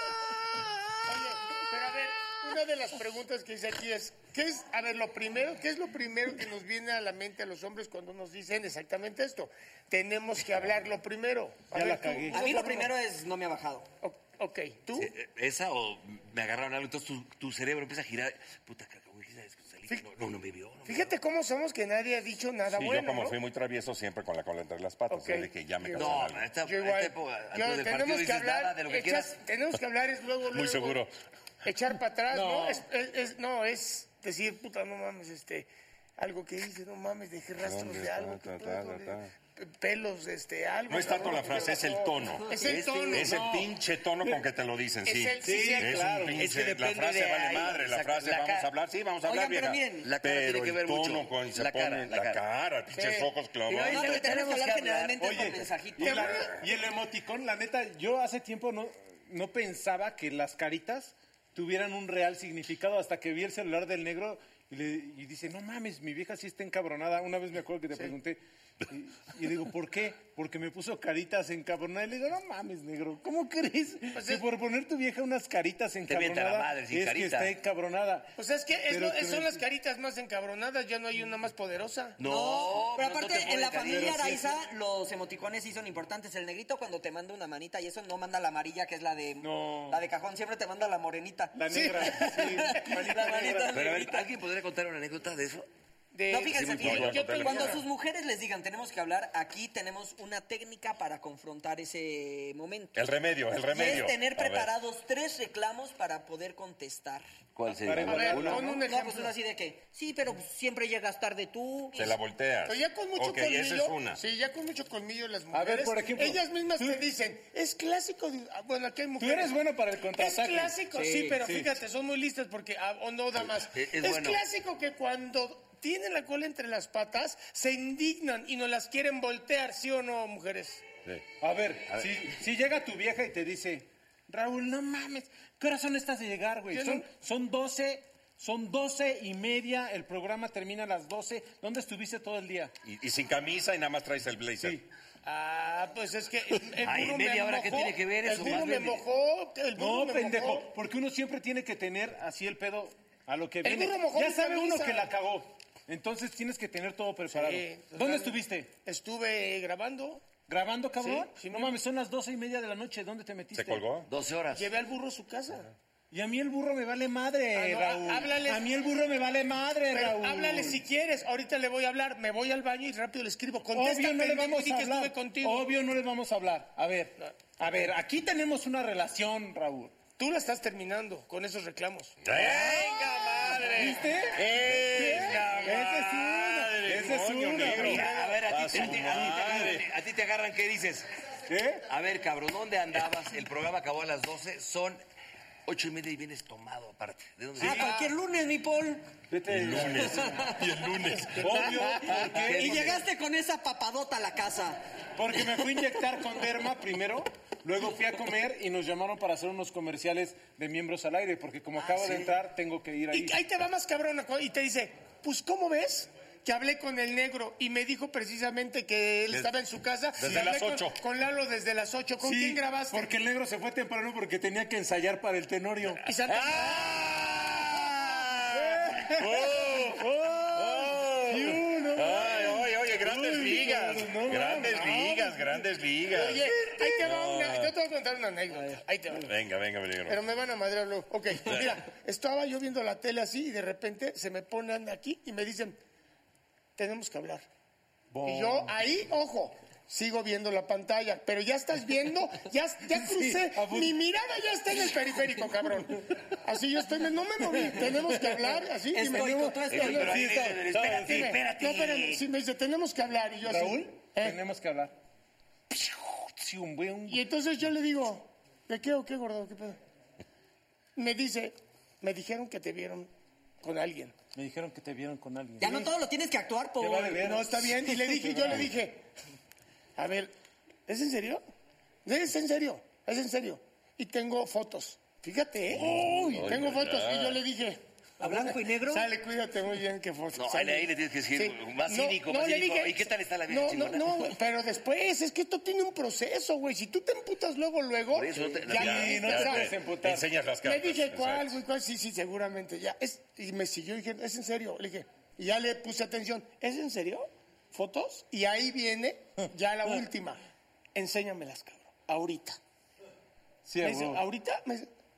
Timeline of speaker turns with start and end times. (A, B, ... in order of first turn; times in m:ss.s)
0:01.0-0:12.9 A
0:11.7-0:12.4 B
0:12.3-0:13.9 C
0:14.0-0:15.1 A
0:14.9-0:21.1 D
0:20.8-0:23.4 A
0:22.7-0:26.4 E
0:25.1-0:31.0 A
0:25.9-0:29.3 D
0:30.5-0:31.1 E
0:31.6-0:43.4 A
0:32.3-0:32.8 B
0:37.6-0:39.3 E
0:40.9-0:54.3 E
0:42.6-0:43.3 D
0:43.3-0:43.7 B
0:45.0-0:46.3 A
0:45.4-0:46.4 B
0:46.3-0:48.7 D
0:49.2-0:50.1 C
0:50.0-0:52.4 D
0:52.9-0:53.3 A
0:53.7-0:55.5 D
0:53.7-0:56.4 C
0:55.2-1:18.3 B
1:14.1-1:14.4 A
1:16.1-1:17.5 D
1:18.4-1:22.2 A
1:18.9-1:19.6 B
1:22.2-1:24.2 D
1:22.2-1:34.3 C
1:23.9-1:24.5 B
1:29.4-1:30.0 B
1:31.5-1:33.9 B
1:33.6-1:35.7 D
1:36.1-1:37.8 A
1:36.3-1:43.0 C
1:36.4-1:37.6 D
1:36.8-1:37.8 E
1:42.9-1:44.7 E
1:43.7-1:47.2 C
1:47.5-1:48.6 D
1:47.8-1:48.8 B
1:48.0-1:49.3 A
1:48.1-1:52.1 C
1:52.0-1:54.2 E
1:52.7-1:59.6 A
1:55.5-1:57.0 B
1:59.2-2:00.8 B
2:00.1-2:10.8 A
2:00.9-2:01.4 C
2:01.4-2:01.7 B
2:03.4-2:04.4 D
2:11.4-2:22.7 B
2:16.7-2:17.0 A
2:22.8-2:24.8 E
2:25.2-2:30.7 A
2:26.8-2:27.8 B
2:26.8-2:29.0 D
2:29.8-2:38.7 B
2:33.6-2:35.1 A
2:37.3-2:40.2 A
2:40.5-2:44.0 B
2:41.0-2:41.8 A
2:43.5-2:44.1 E
2:44.1-2:44.7 D
2:44.5-2:45.7 A
2:46.1-2:50.8 B
2:47.5-2:48.6 A
2:49.9-2:55.7 A
2:53.7-3:00.0 B
3:00.2-3:02.2 A
3:02.2-3:09.9 E
3:02.3-3:09.5 B
3:04.4-3:05.6 A
3:04.5-3:05.7 D
3:07.6-3:11.1 D
3:11.5-3:11.8 B
3:11.9-3:15.0 D
3:15.6-3:17.9 D
3:17.6-3:18.0 B
3:17.6-3:19.0 C
3:19.3-3:20.4 B
3:19.5-3:21.8 E
3:20.1-3:20.6 C
3:21.4-3:23.0 B
3:22.0-3:24.8 C
3:22.2-3:23.0 D
3:25.2-3:33.4 B
3:32.0-3:32.3 D
3:33.1-3:43.1 A
3:40.2-3:41.0 E
3:42.2-3:46.0 B
3:46.0-3:47.0 A
3:46.2-3:57.7 E
3:48.5-3:55.6 B
3:56.1-3:59.3 A
3:56.3-3:56.8 B
3:59.2-4:00.2 E
4:00.1-4:05.8 A
4:01.4-4:01.7 E
4:06.8-4:07.4 A
4:08.1-4:08.7 B
4:08.2-4:20.3 A
4:12.9-4:14.0 B
4:17.6-4:18.5 B
4:18.9-4:20.1 C
4:19.1-4:21.4 B
4:19.7-4:22.2 D
4:20.9-4:24.4 A
4:23.4-4:24.9 B
4:25.7-4:27.2 B
4:27.1-4:29.8 A
4:31.0-4:33.1 A
4:33.6-4:34.1 A
4:34.4-4:35.9 B
4:35.6-4:37.3 C
4:36.8-4:38.6 B
4:37.2-4:39.0 A
4:40.0-4:40.3 A
4:40.9-4:41.4 A
4:42.0-4:59.7 A
4:45.7-4:47.4 E
4:46.0-4:46.5 B
4:48.2-4:49.1 C
4:50.4-4:54.3 D
4:58.1-4:59.1 D
4:58.6-5:00.2 B
4:58.7-5:01.6 E
5:00.6-5:10.4 A
5:10.9-5:12.6 A
5:13.7-5:14.2 B
5:13.8-5:14.9 A